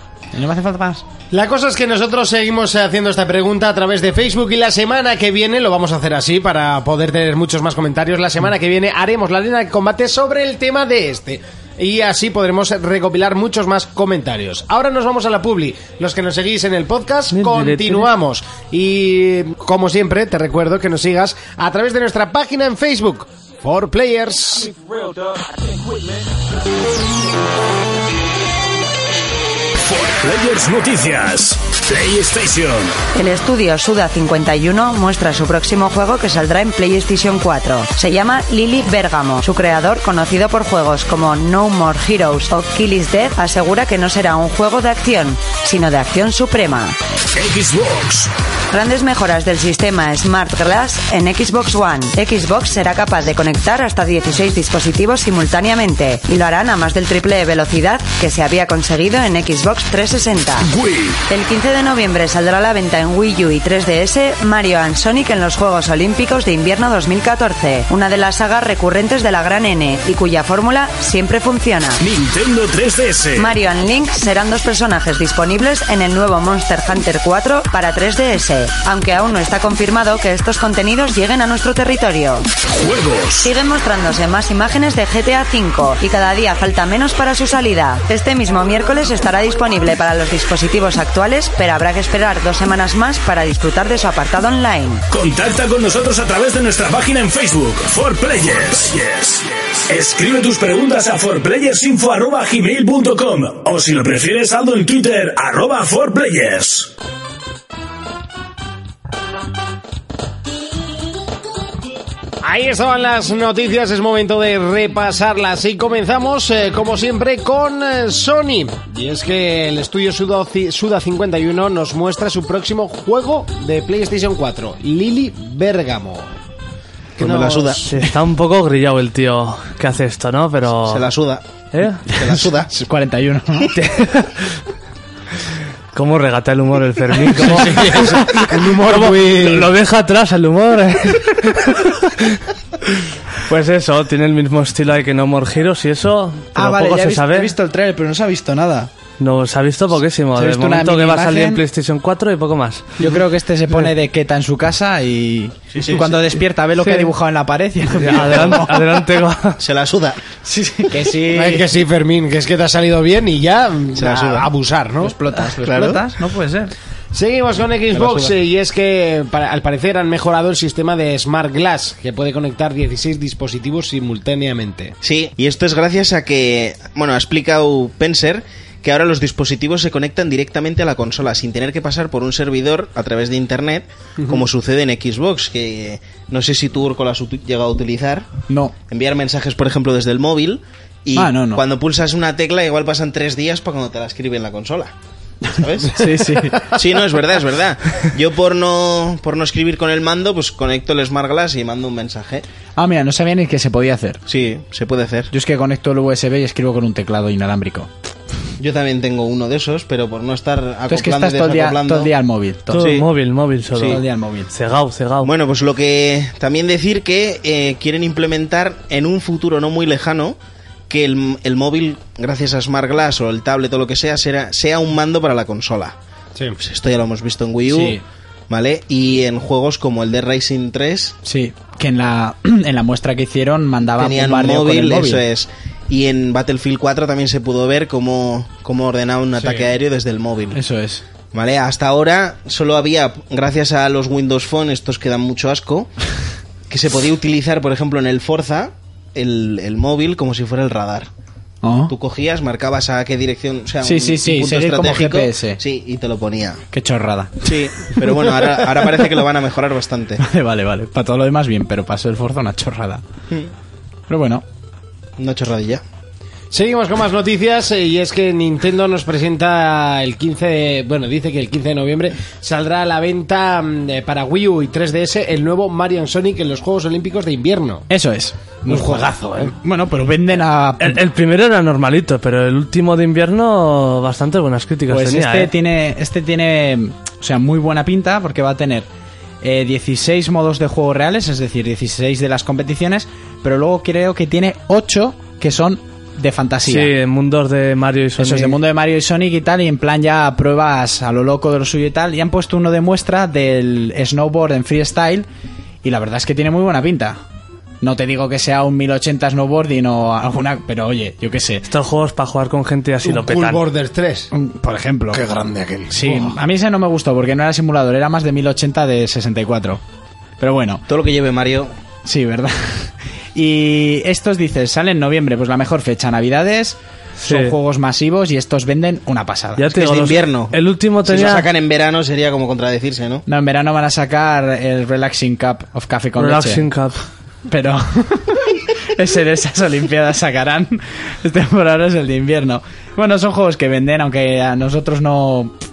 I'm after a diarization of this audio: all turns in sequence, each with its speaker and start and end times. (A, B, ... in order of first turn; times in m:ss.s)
0:00.3-0:01.0 A
0:01.3-0:24.8 B
0:17.3-0:18.1 C
0:29.8-0:33.0 D
0:33.2-0:47.0 E
0:47.3-0:48.3 D
0:48.7-1:00.7 E
1:00.7-1:01.2 D
1:01.3-1:12.0 E
1:12.0-1:13.5 D
1:13.4-1:22.5 E
1:22.7-1:23.5 D
1:23.4-1:35.0 E
1:35.1-1:46.9 D
1:52.4-2:06.3 B
2:07.2-2:07.9 F
2:07.2-2:07.9 B
2:07.9-2:11.1 C
2:10.8-2:11.4 F
2:11.7-2:12.0 C
2:12.1-2:12.7 F
2:12.1-2:13.7 A
2:13.7-2:14.6 C
2:15.9-2:27.5 C
2:17.4-2:19.7 B
2:26.6-2:28.9 A
2:29.2-2:33.0 C
2:30.4-2:31.6 A
2:33.0-2:39.0 A
2:35.7-2:36.2 F
2:36.8-2:37.1 C
2:38.0-2:39.6 C
2:39.6-2:40.2 F
2:40.4-2:41.7 A
2:41.3-2:45.2 B
2:44.0-2:44.5 F
2:45.0-2:46.7 A
2:45.6-2:46.0 F
2:47.1-2:55.0 B
2:55.0-3:08.3 F
3:08.5-3:08.8 A
3:08.9-3:14.9 F
3:11.2-3:11.6 A
3:15.5-3:16.1 F
3:15.9-3:16.7 A
3:16.7-3:22.4 F
3:22.8-3:24.2 A
3:24.3-3:25.3 F
3:25.3-3:27.9 A
3:28.6-3:32.1 F
3:30.9-3:32.9 A
3:32.7-3:35.3 C
3:32.7-3:33.1 F
3:33.7-3:34.0 F
3:33.8-3:34.5 A
3:35.2-3:40.4 F
3:40.9-3:46.0 F
3:46.6-3:51.2 F
3:47.6-3:48.0 A
3:51.2-3:55.2 A
3:54.0-4:00.6 F
4:00.5-4:01.0 A
4:01.3-4:05.9 F
4:06.7-4:11.1 F
4:11.6-4:11.9 A
4:11.9-4:16.6 F
4:13.8-4:15.6 A
4:16.7-4:19.2 A
4:17.4-4:20.2 F
4:20.2-4:23.0 A
4:24.1-4:24.4 A
4:25.2-4:25.8 F
4:26.5-4:37.9 B
4:37.9-4:41.0 A
4:38.7-4:39.5 B
4:40.8-4:45.5 C
4:44.9-4:48.9 A
4:49.4-4:56.9 A
4:56.7-4:58.6 C
4:58.2-5:05.3 A
5:05.8-5:07.2 A
5:07.8-5:11.7 A
5:11.7-5:13.6 C
5:13.0-5:14.3 B
5:14.3-5:15.3 A
5:15.1-5:16.4 B
5:15.9-5:19.8 A
5:20.4-5:20.8 A
5:20.9-5:21.7 F
5:22.0-5:29.8 A
5:27.2-5:27.5 C
5:29.6-5:31.5 C
5:29.7-5:30.5 F
5:31.1-5:33.2 F
5:33.3-5:36.7 A
5:36.2-5:37.0 C
5:37.5-5:45.6 A